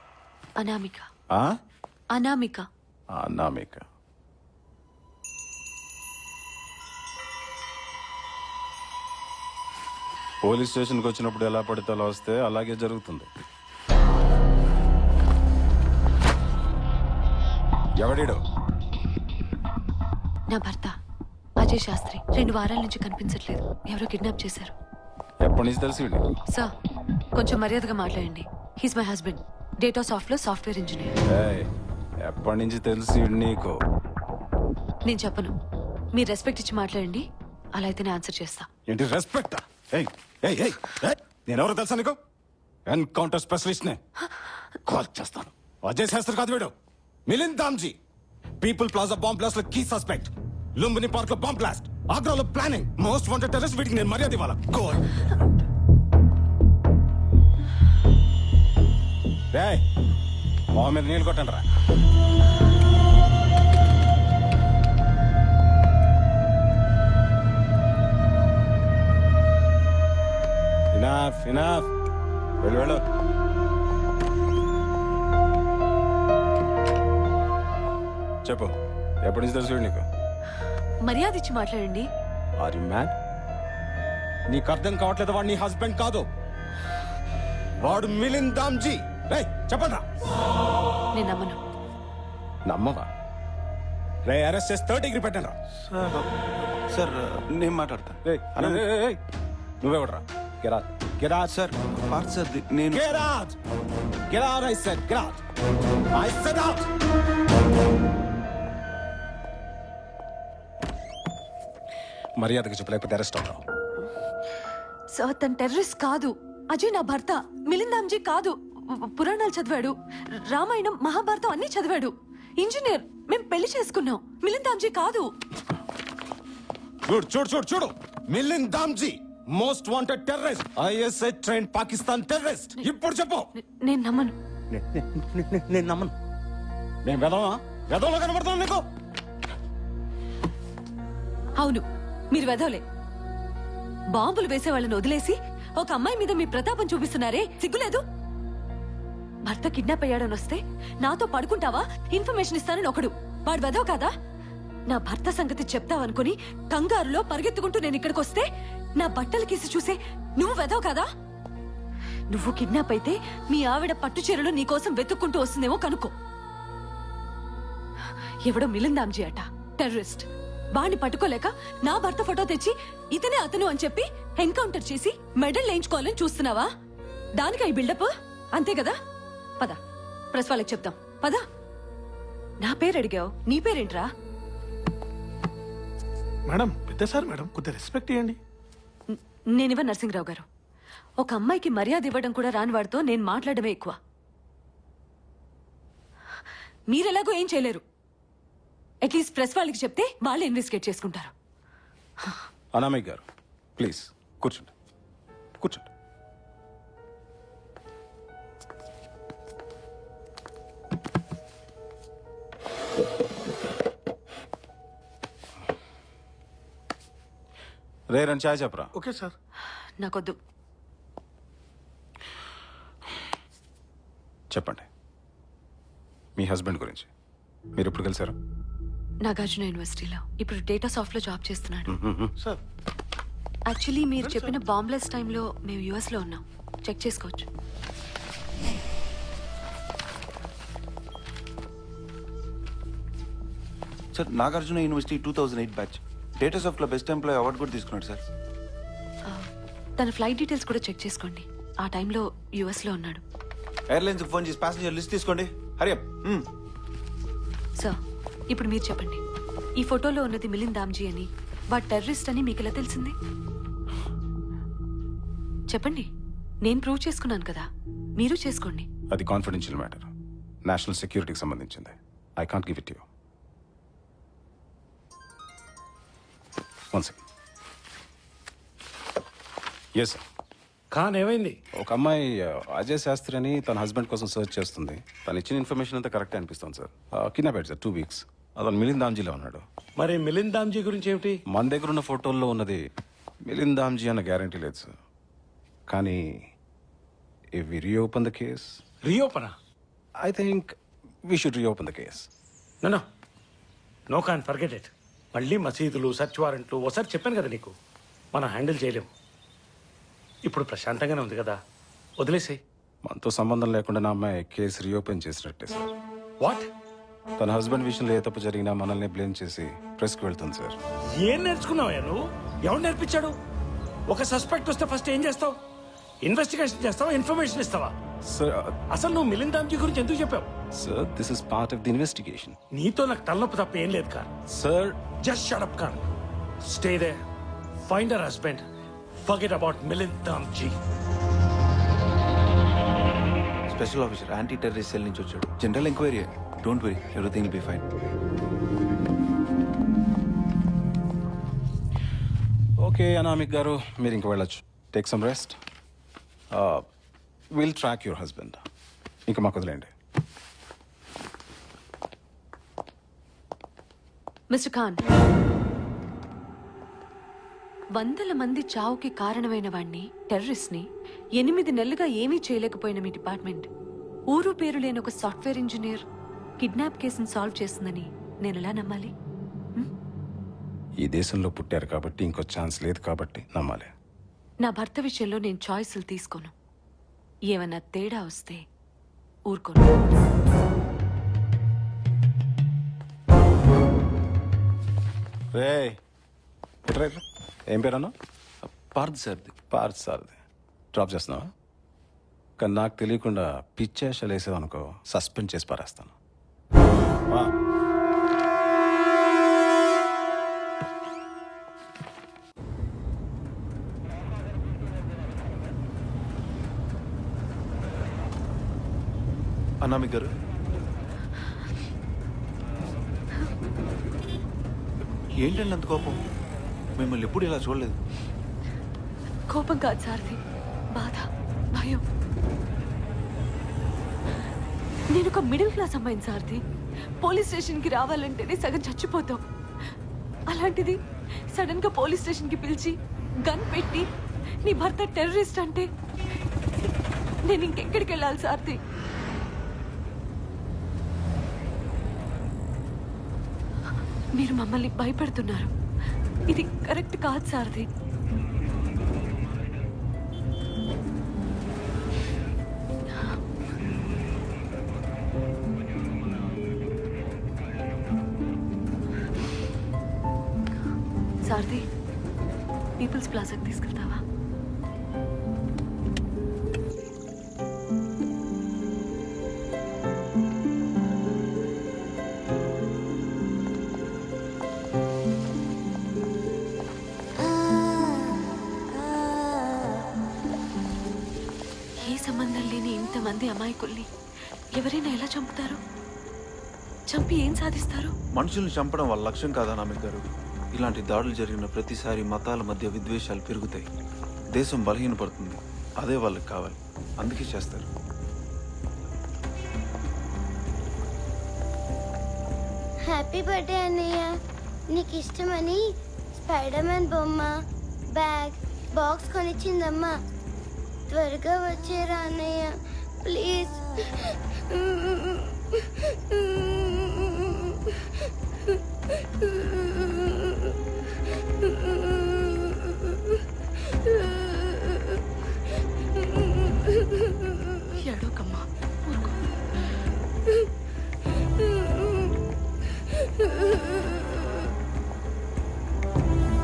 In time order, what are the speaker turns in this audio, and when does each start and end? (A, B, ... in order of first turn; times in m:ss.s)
0:00.6-0:01.1 A
0:02.1-0:02.6 A
0:03.1-0:03.8 B
0:10.4-0:13.3 B
0:18.0-0:18.4 B
0:20.5-0:20.9 A
0:21.6-0:24.7 A
0:25.4-0:26.2 B
0:27.3-0:31.2 A
0:31.2-0:31.7 B
0:32.2-0:33.7 B
0:35.0-0:35.5 A
0:36.1-0:38.7 A
0:38.9-0:42.2 B
0:42.8-0:44.0 B
0:44.8-0:46.7 B
0:47.2-0:48.0 B
0:48.6-0:55.1 B
0:59.5-0:59.8 B
1:00.7-1:01.6 B
1:10.9-1:11.9 B
1:12.6-1:13.0 B
1:18.4-1:20.0 B
1:21.0-1:22.1 A
1:22.6-1:23.1 B
1:24.5-1:26.2 B
1:27.8-1:30.0 B
1:31.1-1:31.6 A
1:32.6-1:33.0 B
1:34.2-1:35.5 B
1:35.8-1:36.3 C
1:36.9-1:38.8 C
1:38.2-1:39.2 B
1:39.8-1:41.5 B
1:41.4-1:43.3 C
1:42.9-1:43.5 B
1:44.3-1:45.4 B
1:46.1-1:46.8 B
1:52.4-1:53.6 B
1:55.1-2:05.3 A
2:07.0-2:13.5 B
2:13.5-2:14.3 A
2:14.7-2:16.1 B
2:17.0-2:18.8 B
2:21.6-2:22.8 A
2:24.1-2:28.0 A
2:29.4-2:34.1 A
2:34.9-2:38.4 A
2:39.0-2:41.0 A
2:42.3-2:46.1 A
2:48.4-2:56.7 A
2:57.4-2:59.0 A
3:00.3-3:01.4 A
3:02.6-3:04.1 A
3:06.5-3:08.4 D
3:09.1-3:10.4 A
3:11.2-3:14.0 A
3:16.9-3:17.8 A
3:19.0-3:21.3 A
3:22.7-3:23.2 B
3:23.8-3:24.7 B
3:25.6-3:25.9 B
3:38.1-3:38.9 B
3:38.9-3:39.3 D
3:40.0-3:40.4 A
3:44.5-3:44.9 B
3:46.4-3:47.1 B
3:47.7-3:48.3 B
3:49.2-3:52.0 A
3:51.9-3:52.3 B
3:53.7-3:57.5 A
3:54.2-3:54.5 D
4:04.1-4:08.2 C
4:09.2-4:13.2 A
4:13.9-4:16.5 C
4:18.5-4:19.2 A
4:19.8-4:23.1 A
4:25.7-4:26.1 A
4:26.6-4:28.9 A
4:29.1-4:30.1 B
4:30.6-4:33.0 B
4:36.9-4:37.2 B
4:40.0-4:40.2 B
4:40.9-4:41.6 E
4:41.8-4:49.6 B
4:50.0-4:51.4 E
4:51.5-4:52.8 B
4:53.4-4:54.9 B
4:55.9-4:56.2 B
4:57.6-4:58.8 B
4:59.0-4:59.5 E
5:00.2-5:00.7 B
5:01.3-5:02.3 B
5:04.1-5:07.7 E
5:08.3-5:09.1 E
5:10.4-5:11.6 E
5:12.2-5:12.6 E
5:13.0-5:15.9 B
5:16.4-5:16.7 E
5:17.4-5:20.8 B
5:21.1-5:23.3 E
5:24.1-5:25.6 E
5:26.2-5:27.9 E
5:28.2-5:28.8 B
5:28.9-5:30.5 E
5:30.7-5:32.6 B
5:32.7-5:34.3 E
5:34.5-5:35.0 B
5:35.2-5:36.0 E
5:36.6-5:37.2 E
5:37.9-5:38.6 E
5:39.2-5:40.8 E
5:43.7-5:47.9 C
5:52.8-5:55.6 B
5:56.5-5:56.8 B
5:57.5-5:58.6 B
5:59.3-5:59.9 B
6:04.5-6:05.0 A
6:07.9-6:10.8 A
6:11.4-6:13.7 A
6:14.3-6:16.0 A
6:16.6-6:19.1 A
6:21.0-6:23.9 B
6:24.6-6:26.5 A
6:27.5-6:28.6 A
6:29.5-6:29.9 A
6:35.5-6:36.0 B
6:36.8-6:38.1 B
6:38.6-6:39.5 C
6:39.7-6:40.4 B
6:40.9-6:41.5 B
6:42.6-6:46.1 B
6:59.8-7:00.3 C
7:05.4-7:06.1 C
7:07.0-7:08.0 C
7:09.5-7:10.4 A
7:10.9-7:12.0 A
7:15.1-7:16.6 A
7:17.2-7:19.4 A
7:20.5-7:21.0 A
7:21.5-7:24.1 A
7:24.6-7:25.9 A
7:27.4-7:28.8 A
7:34.3-7:35.7 A
7:36.5-7:37.9 A
7:51.4-7:51.8 A
7:53.0-7:54.2 A
8:12.0-8:14.1 A
8:14.7-8:15.8 A
8:17.1-8:18.1 A
8:18.3-8:23.9 C
8:24.5-8:27.9 C
8:33.1-8:34.3 F
8:34.9-8:37.6 F
8:38.1-8:40.2 F
8:41.1-8:45.5 F
8:46.4-8:46.9 F
8:58.0-8:59.4 A